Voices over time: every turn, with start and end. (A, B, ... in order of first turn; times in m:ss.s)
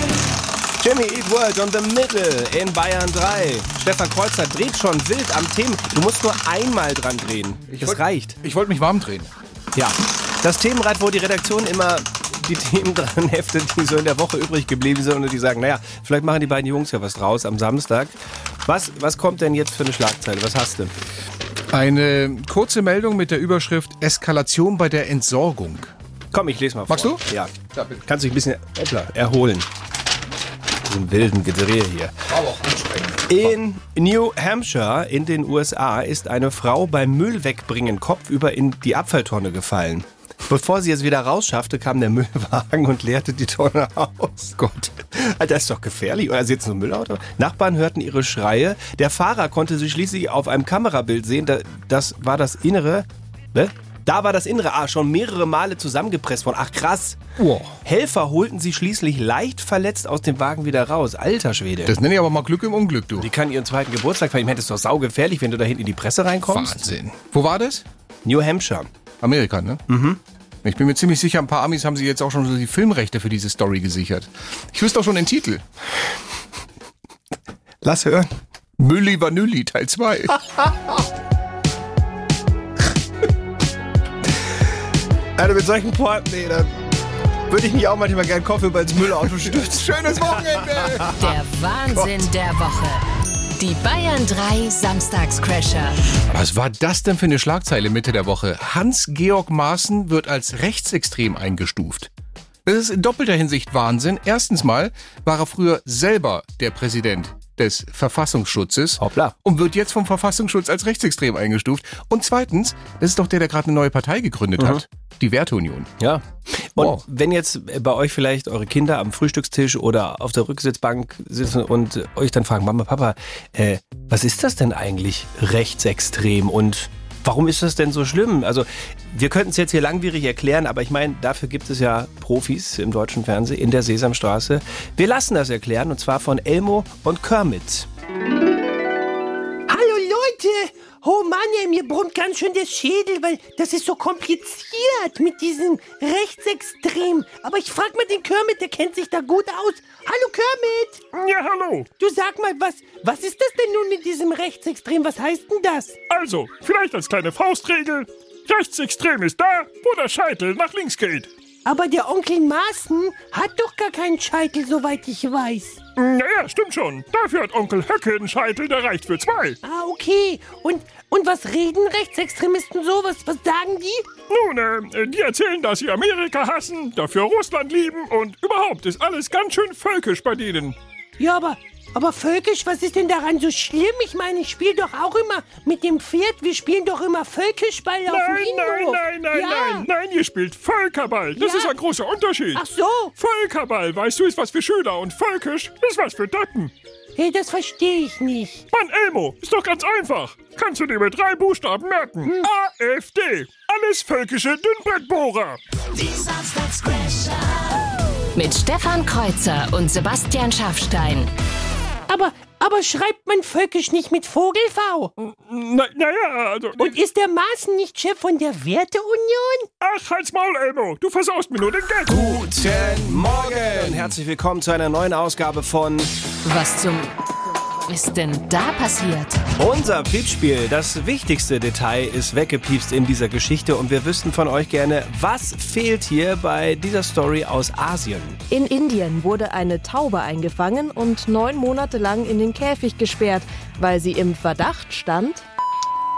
0:00.8-0:08.4 A
0:07.8-0:09.3 B
0:09.8-0:18.1 A
0:18.7-0:20.9 A
0:21.7-0:25.9 B
0:26.3-0:29.7 A
0:26.9-0:27.2 B
0:27.7-0:28.0 B
0:30.8-0:32.2 A
0:32.3-0:33.5 B
0:33.3-0:57.2 A
0:44.6-0:44.9 B
0:57.4-0:57.8 B
0:57.8-1:01.9 A
1:01.9-1:03.3 B
1:03.2-1:06.8 A
1:06.5-1:07.8 B
1:08.2-1:08.9 A
1:09.2-1:09.8 B
1:09.9-1:10.2 A
1:10.6-1:15.6 B
1:17.8-1:18.3 A
1:18.8-1:20.5 B
1:25.4-1:26.7 A
1:27.5-1:31.2 A
1:29.4-1:31.2 B
1:31.2-1:33.0 C
1:33.6-1:36.0 C
1:36.3-1:42.1 B
1:42.6-1:55.9 B
1:49.0-1:49.4 A
1:54.6-1:54.8 A
1:56.0-2:17.9 A
1:56.8-1:57.0 B
2:19.7-2:31.1 D
2:31.1-2:31.9 E
2:32.0-2:36.0 D
2:36.1-2:41.3 E
2:41.6-2:45.8 D
2:46.0-2:49.6 E
2:49.6-2:54.1 D
2:54.3-3:00.8 E
3:01.2-3:09.9 D
3:08.1-3:12.6 E
3:11.4-3:11.8 D
3:12.6-3:13.1 D
3:13.2-3:16.7 E
3:17.2-3:18.6 D
3:18.7-3:25.6 E
3:26.0-3:27.7 C
3:28.4-3:31.3 C
3:32.1-3:35.1 D
3:35.2-3:37.0 E
3:36.8-3:39.7 D
3:39.8-3:42.3 E
3:42.1-3:46.1 A
3:42.3-3:44.1 B
3:46.4-3:47.1 C
3:47.9-3:49.4 C
3:49.6-3:58.4 A
3:58.7-4:05.3 F